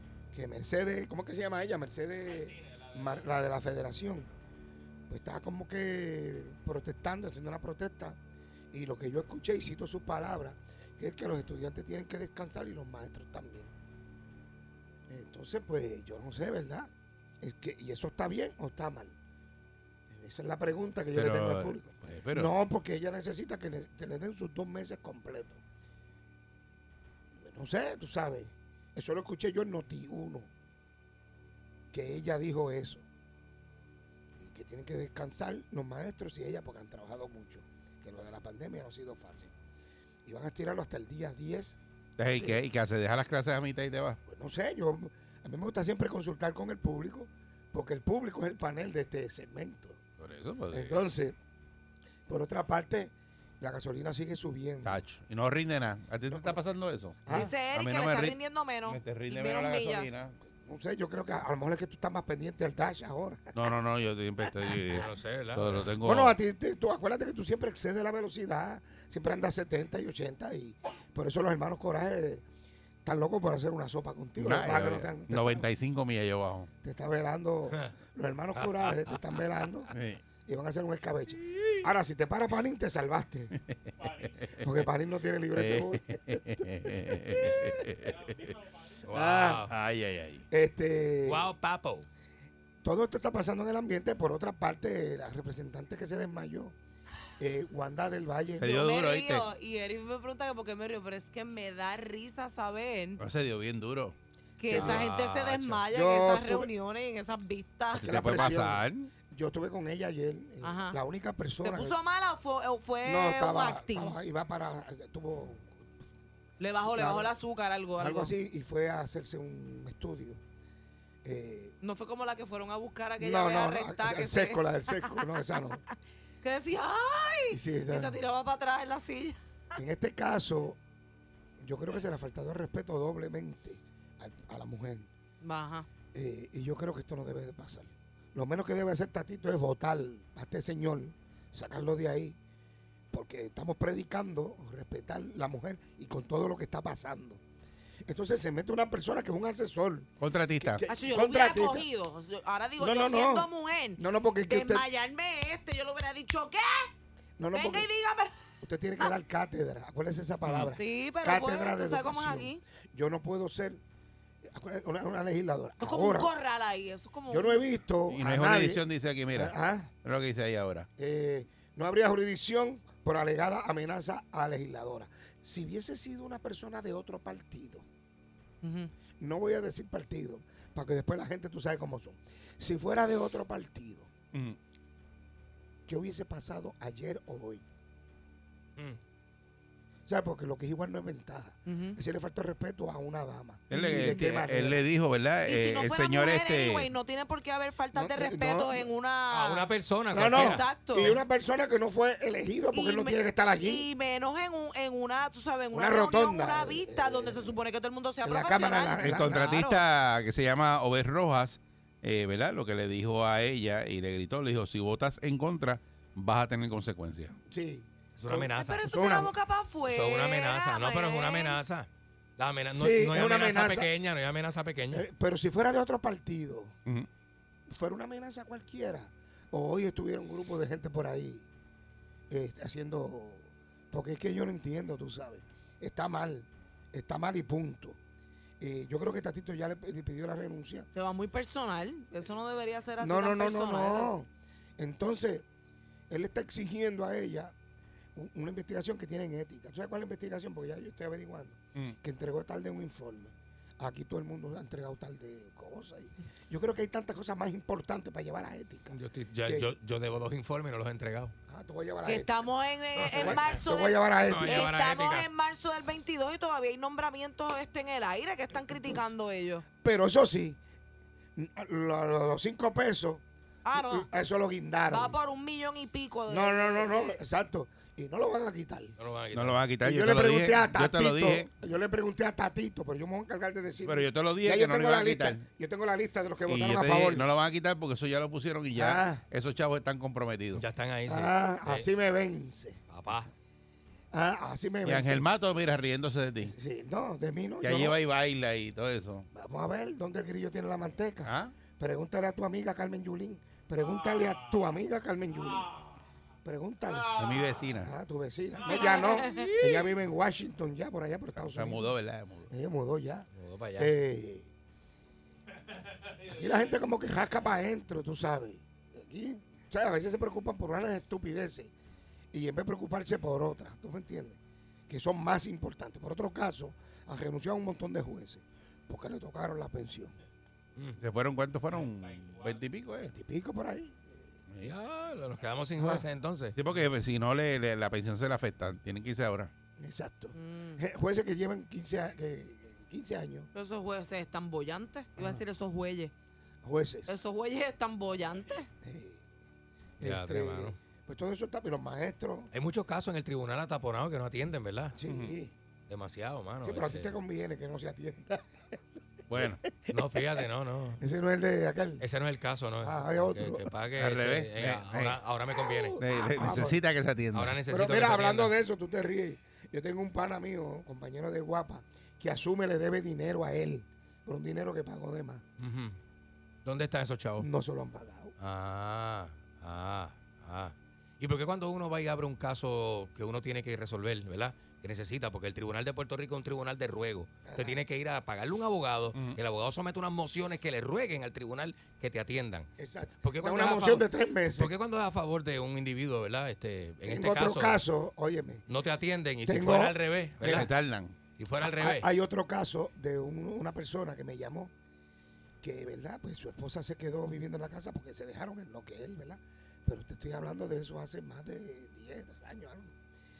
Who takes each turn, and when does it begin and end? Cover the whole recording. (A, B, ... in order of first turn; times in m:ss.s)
0:00.3-0:04.3 A
0:05.1-0:08.2 A
0:08.7-0:13.7 A
0:15.1-0:16.9 A
0:17.4-0:19.1 A
0:20.1-0:25.6 A
0:21.1-0:22.5 B
0:27.4-0:30.5 A
0:31.9-0:33.0 A
0:34.4-0:39.5 A
0:40.2-0:41.8 A
0:42.2-0:44.2 B
0:42.3-0:42.6 A
0:44.3-0:50.0 A
0:50.2-0:51.0 B
0:50.7-0:51.3 A
0:52.3-0:55.0 A
0:54.8-1:00.3 B
0:56.3-0:56.6 A
0:57.2-0:57.5 A
0:57.3-1:00.1 C
1:00.4-1:03.5 A
1:03.5-1:06.4 B
1:04.9-1:05.9 D
1:06.0-1:12.4 A
1:13.0-1:15.6 A
1:14.4-1:16.7 B
1:16.8-1:19.9 A
1:18.6-1:19.2 D
1:19.9-1:20.2 B
1:20.4-1:23.5 A
1:24.0-1:24.7 B
1:24.6-1:27.7 A
1:25.5-1:28.5 B
1:29.0-1:29.7 D
1:29.1-1:29.6 A
1:29.6-1:30.4 B
1:30.5-1:31.5 A
1:31.2-1:32.1 D
1:32.8-1:36.7 A
1:37.4-1:38.7 A
1:38.6-1:39.4 B
1:38.7-1:43.2 C
1:43.2-1:44.2 B
1:44.6-1:48.1 C
1:44.6-1:45.1 A
1:44.7-1:45.8 D
1:45.9-1:46.7 A
1:47.9-1:49.1 B
1:48.0-1:52.0 A
1:50.6-1:51.0 C
1:51.6-1:54.2 C
1:53.0-1:55.8 A
1:56.6-1:58.3 C
1:56.8-1:57.3 A
1:58.0-2:00.4 A
2:01.2-2:01.7 A
2:01.8-2:05.7 C
2:03.2-2:05.8 A
2:06.4-2:09.8 C
2:07.5-2:08.2 A
2:09.8-2:10.8 A
2:11.6-2:15.1 A
2:15.4-2:15.9 C
2:16.1-2:22.4 A
2:23.1-2:27.4 A
2:28.0-2:31.9 A
2:30.2-2:30.8 B
2:30.8-2:36.9 C
2:32.8-2:34.8 A
2:37.4-2:37.9 A
2:37.5-2:38.3 C
2:38.6-2:43.8 A
2:40.4-2:40.7 B
2:40.7-2:42.6 C
2:44.5-2:46.3 A
2:45.8-2:47.7 C
2:47.3-2:49.9 A
2:48.1-2:50.9 B
2:51.0-2:57.8 A
2:58.6-2:58.9 C
2:59.2-3:04.1 A
3:05.9-3:07.6 A
3:10.1-3:14.8 A
3:11.6-3:12.0 C
3:13.7-3:16.9 B
3:13.7-3:14.3 C
3:15.4-3:19.7 C
3:17.9-3:18.9 A
3:19.3-3:20.7 D
3:20.1-3:23.9 A
3:20.3-3:21.2 C
3:22.7-3:29.8 C
3:25.7-3:27.6 A
3:28.2-3:29.4 A
3:29.0-3:37.4 B
3:37.5-3:39.3 A
3:38.2-3:38.8 D
3:38.4-3:41.6 C
3:39.8-3:45.0 D
3:42.7-3:43.9 A
3:44.9-3:46.8 A
3:47.7-3:51.5 A
3:52.3-3:58.0 A
3:58.6-4:00.9 A
4:00.9-4:04.2 C
4:03.0-4:05.4 A
4:06.1-4:07.5 A
4:08.2-4:19.7 A
4:18.9-4:21.3 D
4:21.5-4:22.4 A
4:22.0-4:29.6 C
4:23.0-4:23.4 D
4:23.0-4:24.7 A
4:24.2-4:25.3 D
4:28.7-4:29.1 A
4:29.8-4:30.6 A
4:31.4-4:35.1 A
4:33.6-4:34.1 C
4:34.9-4:37.2 C
4:36.3-4:38.9 A
4:39.0-4:39.6 D
4:39.3-4:41.5 B
4:39.8-4:47.2 A
4:43.8-4:45.4 B
4:46.5-4:50.6 B
4:48.7-4:49.2 A
4:50.5-4:51.9 D
4:51.1-4:52.8 A
4:52.9-4:53.3 D
4:54.1-4:55.2 A
4:54.8-4:56.5 B
4:56.4-4:58.0 A
4:57.6-4:59.3 B
4:59.3-5:05.8 A
5:01.2-5:01.6 B
5:06.4-5:07.2 A
5:07.1-5:07.9 B
5:07.8-5:11.9 A
5:08.7-5:09.6 C
5:11.4-5:12.5 B
5:12.5-5:14.5 A
5:13.3-5:13.9 D
5:16.2-5:21.7 A
5:22.3-5:24.4 A
5:24.9-5:30.1 A
5:31.0-5:33.1 B
5:33.0-5:34.2 A
5:34.6-5:36.6 D
5:35.8-5:36.0 A
5:36.5-5:39.5 B
5:39.8-5:43.5 A
5:40.3-5:40.8 C
5:43.5-5:46.1 C
5:45.2-5:45.4 A
5:46.6-5:47.2 A
5:47.0-5:48.7 C
5:48.8-5:49.2 A
5:50.0-5:50.8 D
5:50.0-5:52.5 A
5:52.5-5:55.0 D
5:55.0-5:55.5 A
5:55.1-5:55.4 B
5:55.9-5:57.2 D
5:56.6-5:59.6 A
5:59.3-5:59.6 B
5:59.9-6:01.0 D
6:01.0-6:02.0 A
6:02.0-6:06.0 D
6:02.8-6:03.7 A
6:04.0-6:05.2 B
6:05.5-6:06.8 A
6:06.0-6:07.6 B
6:07.3-6:08.5 D
6:07.7-6:15.4 A
6:15.6-6:16.0 D
6:16.6-6:17.5 D
6:17.4-6:18.3 A
6:18.4-6:32.7 D
6:27.4-6:27.8 A
6:29.1-6:29.4 B
6:32.8-6:34.7 A
6:33.2-6:37.8 D
6:37.0-6:38.7 A
6:38.7-6:40.7 D
6:39.4-6:40.7 A
6:40.5-6:41.2 B
6:41.4-6:42.1 D
6:41.6-6:44.7 A
6:45.6-6:52.9 A